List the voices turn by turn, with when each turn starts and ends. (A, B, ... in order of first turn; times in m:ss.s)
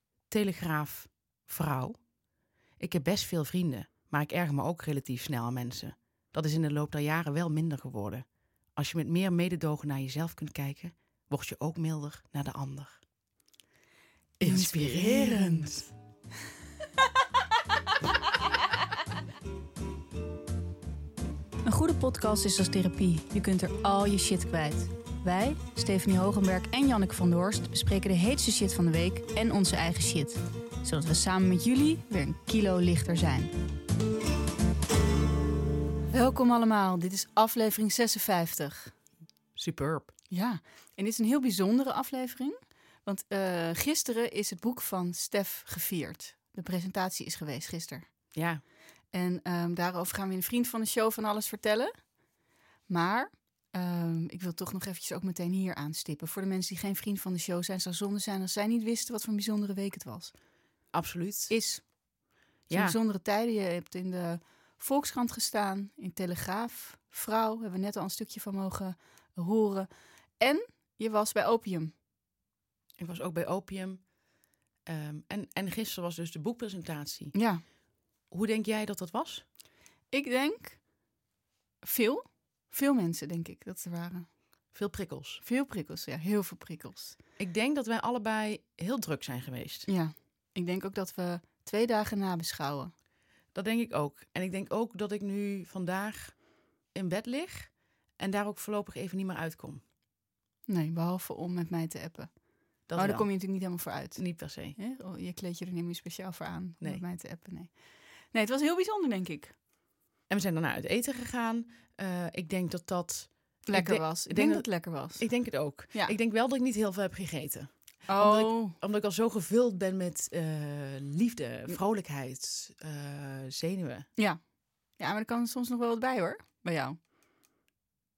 0:00.3-0:02.0 A
0:02.8-0:13.0 A
0:14.4-0:15.9 A
0:14.4-0:15.8 B
0:21.6-0:33.5 B
0:36.1-0:38.9 B
0:39.6-0:40.1 A
0:40.3-0:48.1 B
0:48.3-0:48.6 A
0:49.1-0:51.9 B
0:52.9-1:00.3 B
1:00.9-1:01.5 A
1:01.5-1:01.8 B
1:02.7-1:03.0 A
1:02.7-1:09.9 B
1:10.4-1:11.9 B
1:13.0-1:14.0 A
1:14.8-1:17.3 A
1:17.3-1:17.6 B
1:18.3-1:19.4 A
1:20.1-1:20.8 B
1:21.8-1:24.3 B
1:24.7-1:25.4 A
1:25.4-1:27.2 B
1:27.4-1:29.9 A
1:29.9-1:32.9 B
1:33.5-1:36.4 A
1:36.9-1:39.8 A
1:40.7-1:42.3 B
1:42.9-1:43.3 A
1:43.0-1:47.7 B
1:44.2-1:44.8 A
1:48.3-1:49.5 B
1:50.3-2:04.1 A
1:53.7-1:55.3 B
1:58.1-1:58.8 B
2:05.0-2:07.0 B